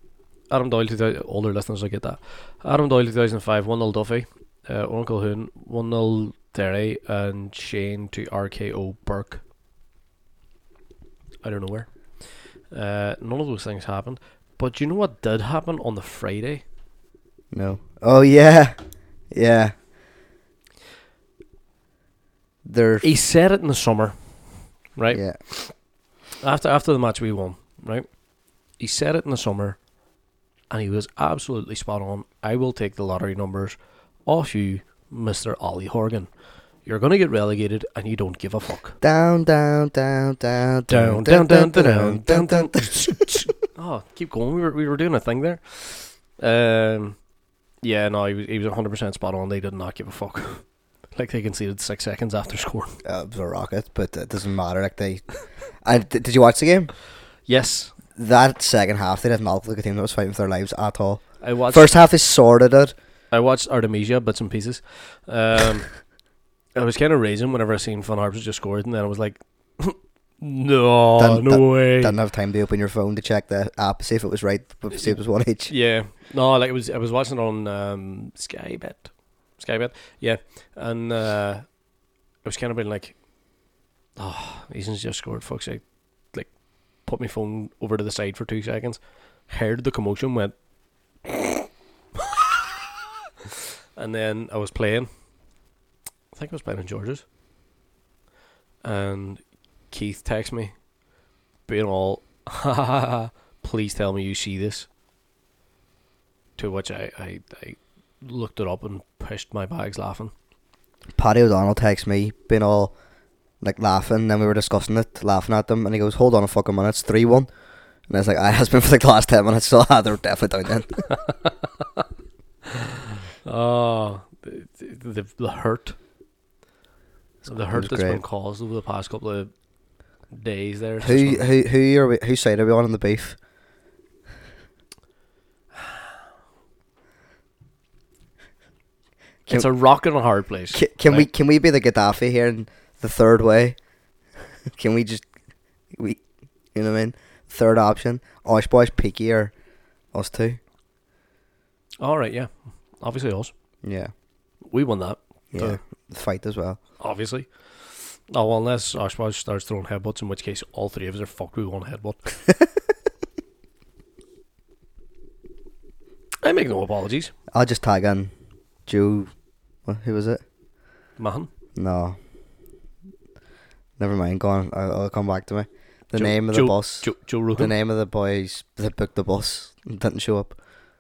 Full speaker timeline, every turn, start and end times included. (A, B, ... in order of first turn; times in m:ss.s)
0:00.5-0:09.4 A
0:11.4-0:16.6 A
0:17.5-0:19.8 B
0:22.6-0:23.1 B
0:23.0-0:25.8 A
0:25.1-0:25.4 B
0:26.4-0:29.9 A
0:30.7-0:39.0 A
0:39.0-0:43.5 B
0:40.9-0:47.2 A
0:47.8-0:53.0 A
0:53.0-0:57.0 B
0:57.4-0:57.9 A
0:58.2-1:02.9 B
1:01.4-1:01.9 A
1:03.3-1:06.1 A
1:06.7-1:12.2 A
1:11.2-1:15.7 B
1:14.9-1:21.8 A
1:22.4-1:23.2 A
1:24.2-1:30.6 A
1:34.0-1:35.1 A
1:36.3-1:37.2 A
1:38.8-1:40.9 A
1:41.6-1:44.9 A
1:46.6-1:50.3 A
1:51.2-1:53.0 B
1:53.6-2:01.1 B
2:03.4-2:06.0 A
2:07.4-2:09.5 A
2:07.5-2:08.2 B
2:10.3-2:11.5 A
2:11.0-2:13.4 B
2:19.5-2:21.3 A
2:20.7-2:23.8 B
2:24.7-2:25.3 B
2:25.9-2:29.5 B
2:30.1-2:30.6 B
2:32.0-2:33.5 A
2:33.8-2:34.1 B
2:34.7-2:35.8 A
2:35.5-2:36.8 B
2:37.0-2:42.3 A
2:46.4-2:47.3 A
2:47.5-2:48.3 B
2:48.9-2:49.3 B
2:49.8-2:50.4 B
2:51.2-2:51.5 A
2:51.8-2:52.2 B
2:54.0-3:00.6 B
2:56.1-2:57.7 A